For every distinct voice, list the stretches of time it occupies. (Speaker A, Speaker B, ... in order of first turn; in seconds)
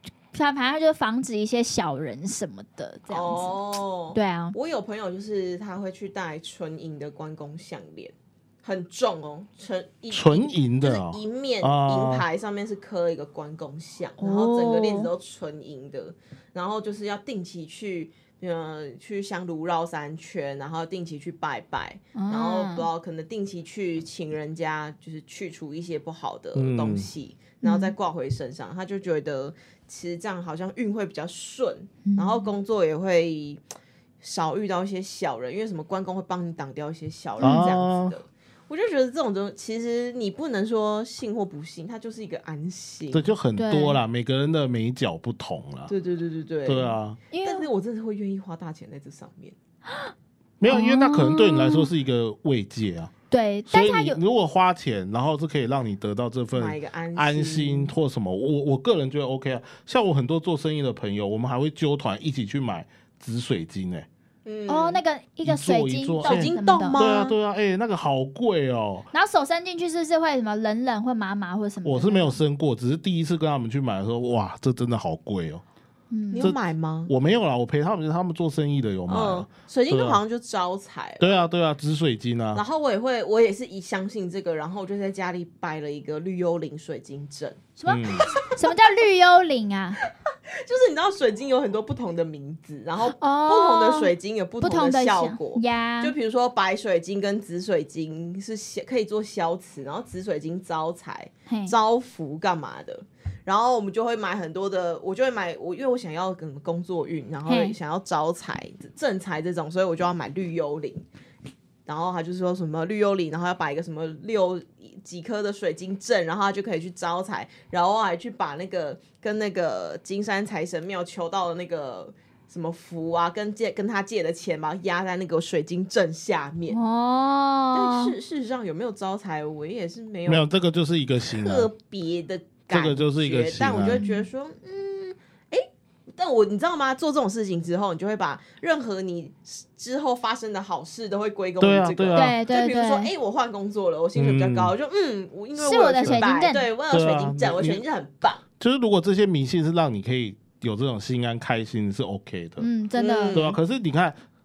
Speaker A: 0.3-3.6, 4.1-4.5, 14.2-15.1, 22.1-22.9, 27.6-27.9, 32.0-32.5, 37.4-37.8, 43.6-44.0, 47.3-47.7, 50.7-51.9, 53.3-54.2, 64.7-67.0, 69.1-72.4, 76.1-76.5, 87.8-90.0, 93.2-96.2, 101.5-101.8, 107.5-107.8, 126.7-128.1, 134.0-134.2, 142.1-143.1, 145.6-146.7, 152.6-153.4
Speaker B: 3.1-33.6, 34.2-43.3, 45.9-49.6, 56.5-57.9, 64.5-65.0, 66.2-67.4, 76.3-77.1, 79.1-81.4, 82.5-87.7, 88.3-88.7, 90.5-111.0, 111.9-126.8, 127.7-130.4, 131.2-148.4, 153.0-153.5
Speaker C: 10.1-12.2, 26.6-27.1, 37.4-38.1, 43.1-45.9, 46.7-47.2, 50.6-53.1, 53.7-64.1, 65.4-69.1, 71.8-75.6, 76.4-80.2, 81.2-82.6, 87.9-88.3, 130.3-131.7, 132.7-134.0, 141.6-142.4, 144.2-144.7, 146.9-147.8, 148.6-152.7, 153.3-154.2